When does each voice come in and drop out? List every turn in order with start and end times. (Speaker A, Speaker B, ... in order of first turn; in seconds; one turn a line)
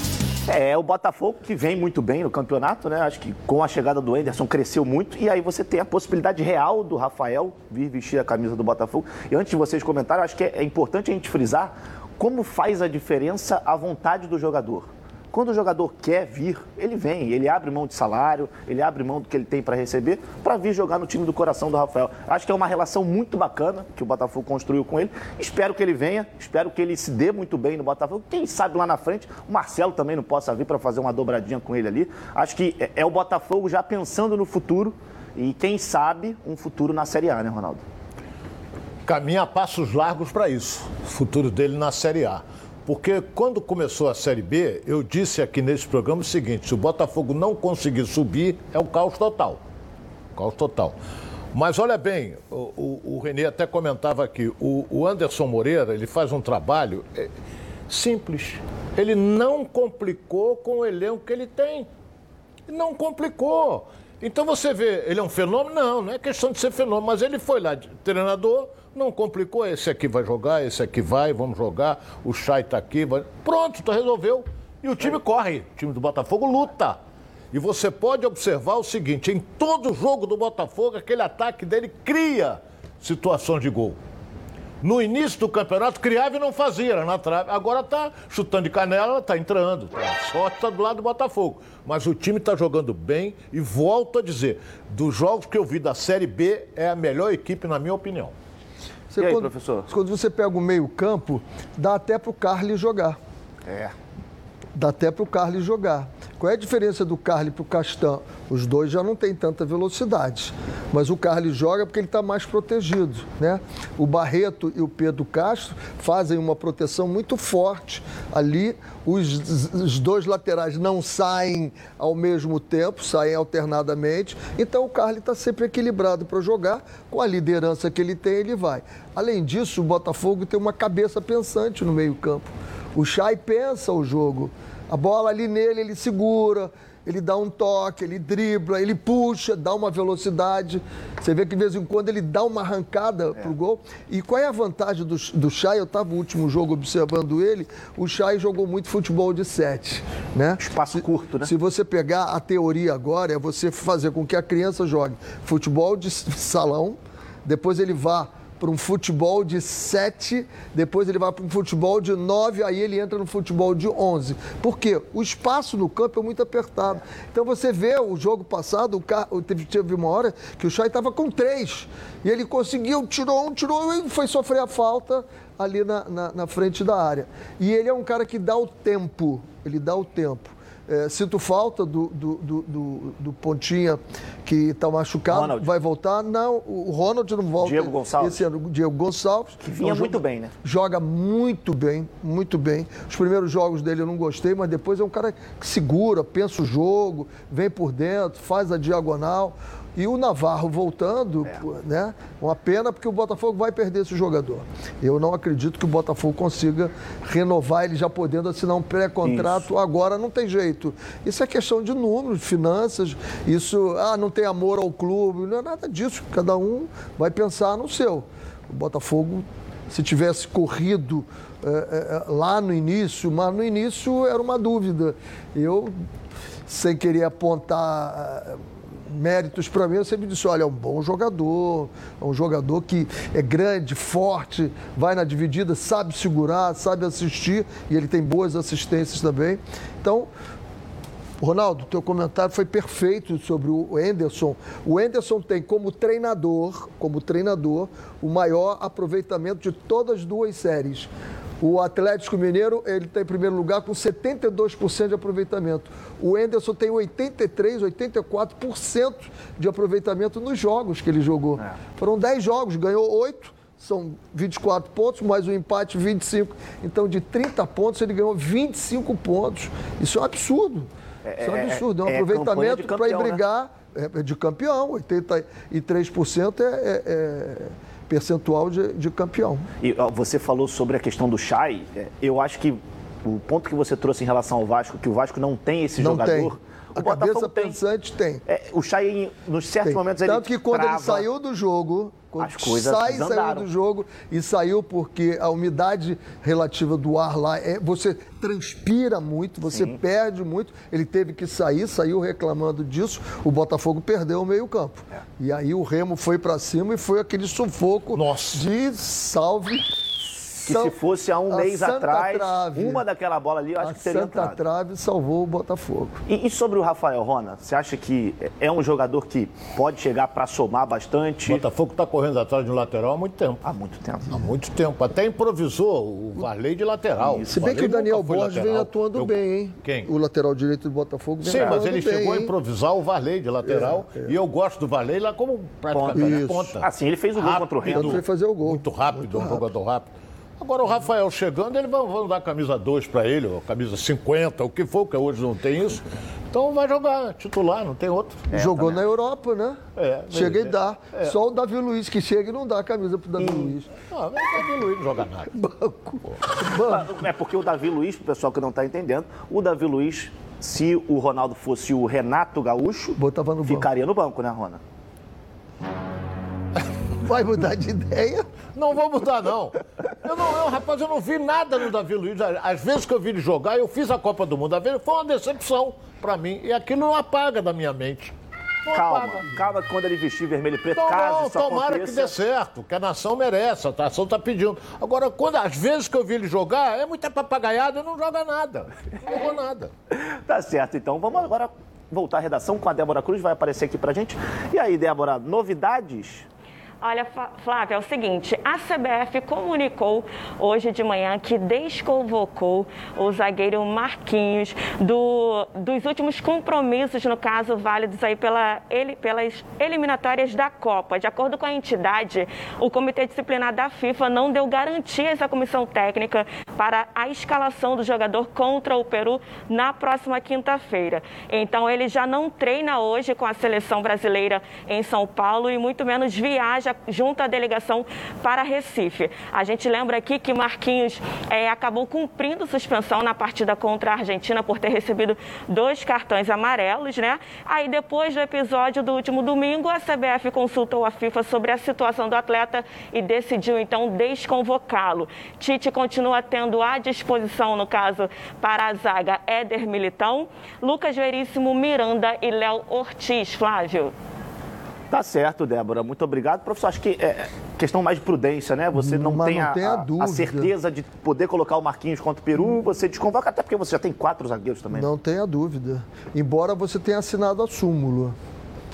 Speaker A: 0.5-37.8
Speaker B: 39.0-49.6
Speaker B: 50.3-51.0
Speaker B: 51.5-57.3
Speaker B: 57.9-61.9
Speaker B: 62.7-77.0
Speaker B: 77.5-84.0
Speaker B: 84.8-98.3
Speaker C: 99.1-103.2
Speaker A: 99.2-99.9
Speaker A: 103.7-103.9
Speaker C: 104.7-225.9
Speaker A: 150.6-151.5
Speaker A: 185.3-185.7
Speaker A: 187.6-188.4
Speaker A: 189.6-190.5
Speaker A: 209.2-209.6
Speaker C: 226.7-240.3
Speaker C: 241.4-251.1
Speaker C: 251.6-279.6
Speaker A: 271.2-273.4
Speaker A: 279.8-287.8
Speaker C: 286.0-288.4
Speaker A: 288.4-291.3
Speaker C: 289.9-310.9
Speaker A: 292.4-293.7
Speaker B: 308.1-308.6
Speaker A: 310.6-314.6
Speaker C: 311.5-313.0
Speaker C: 313.8-316.2
Speaker A: 316.3-321.6
Speaker B: 321.4-323.6
Speaker A: 323.6-324.5
Speaker B: 324.3-330.1
Speaker C: 327.5-332.5
Speaker B: 331.4-348.5
Speaker C: 333.6-334.3
Speaker A: 335.9-338.2
Speaker C: 336.1-336.8
Speaker C: 337.8-339.6
Speaker A: 348.5-349.0
Speaker C: 348.5-353.9
Speaker B: 350.0-351.3
Speaker A: 353.4-353.7
Speaker B: 354.0-355.5
Speaker C: 355.5-357.1
Speaker A: 356.8-364.8
Speaker C: 363.2-363.9
Speaker C: 367.2-368.4
Speaker B: 368.7-379.5
Speaker A: 378.9-382.3
Speaker B: 380.9-389.9
Speaker A: 390.1-396.4
Speaker D: 397.0-454.1
Speaker A: 455.1-465.1
Speaker C: 458.9-460.7
Speaker C: 464.9-468.4